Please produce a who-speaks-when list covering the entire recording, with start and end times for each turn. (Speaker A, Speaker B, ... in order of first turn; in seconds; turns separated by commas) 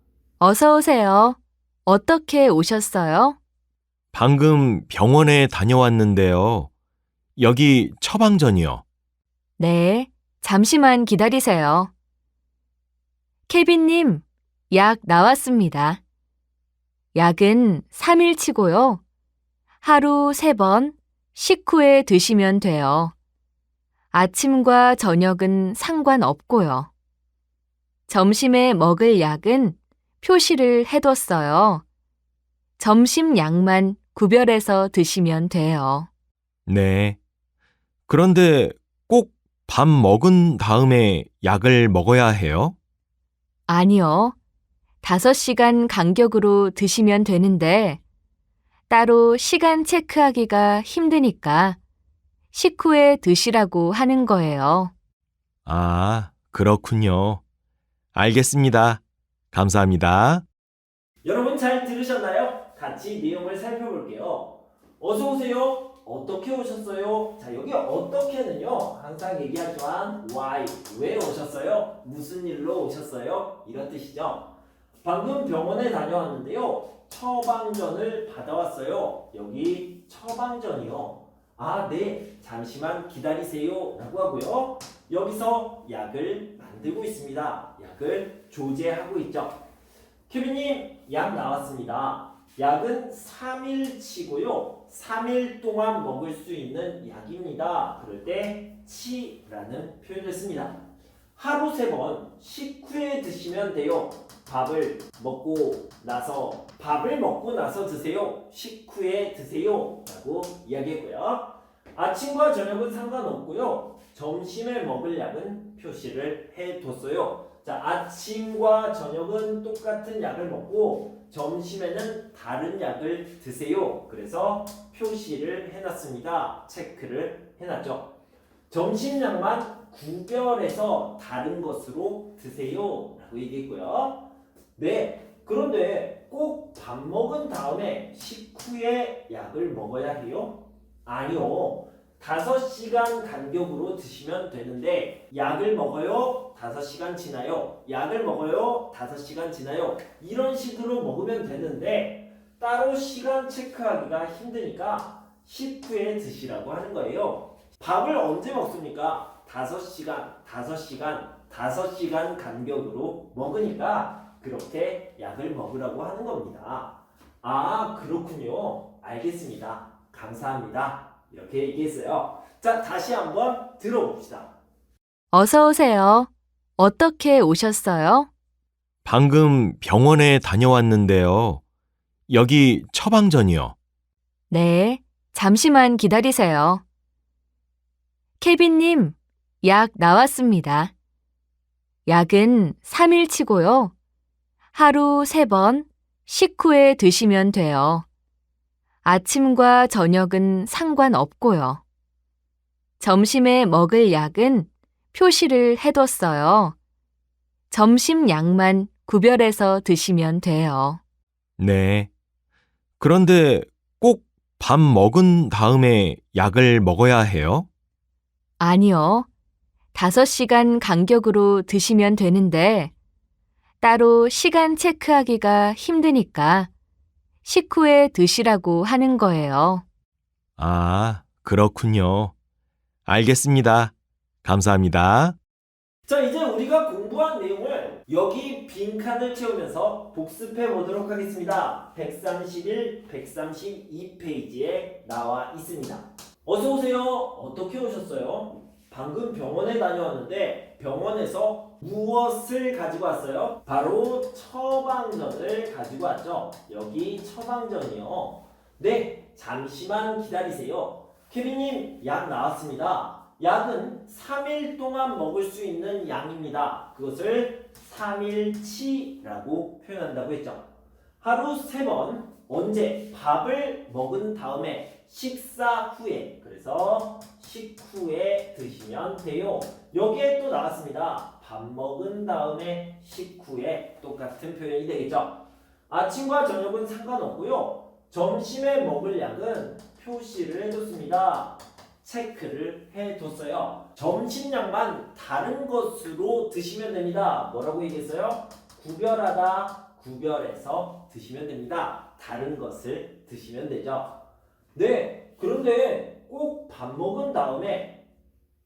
Speaker A: 0.4-3.4, Speaker B: 4.1-6.7, Speaker B: 7.4-8.8, Speaker A: 9.6-11.9, Speaker A: 13.5-16.0, Speaker A: 17.1-19.0, Speaker A: 19.8-23.1, Speaker A: 24.1-26.9, Speaker A: 28.1-31.8, Speaker A: 32.8-36.1, Speaker B: 36.7-37.2, Speaker B: 38.1-42.7, Speaker A: 43.7-44.3, Speaker A: 45.0-48.0, Speaker A: 48.9-51.8, Speaker A: 52.5-54.9, Speaker B: 55.6-57.4, Speaker B: 58.1-60.4, Speaker C: 61.2-89.6, Speaker C: 90.3-100.8, Speaker C: 101.3-128.1, Speaker C: 128.7-174.6, Speaker A: 175.3-178.3, Speaker B: 179.0-181.6, Speaker B: 182.3-183.7, Speaker A: 184.5-186.8, Speaker A: 188.4-190.9, Speaker A: 192.1-193.9, Speaker A: 194.7-198.1, Speaker A: 199.0-201.8, Speaker A: 203.0-206.7, Speaker A: 207.7-211.0, Speaker B: 211.6-212.1, Speaker B: 213.0-217.7, Speaker A: 218.6-219.3, Speaker A: 219.9-222.9, Speaker A: 223.8-226.7, Speaker A: 227.4-229.8, Speaker B: 230.6-232.3, Speaker B: 233.1-233.9, Speaker B: 234.4-235.4, Speaker C: 236.0-270.7, Speaker C: 271.2-304.2, Speaker C: 304.7-308.0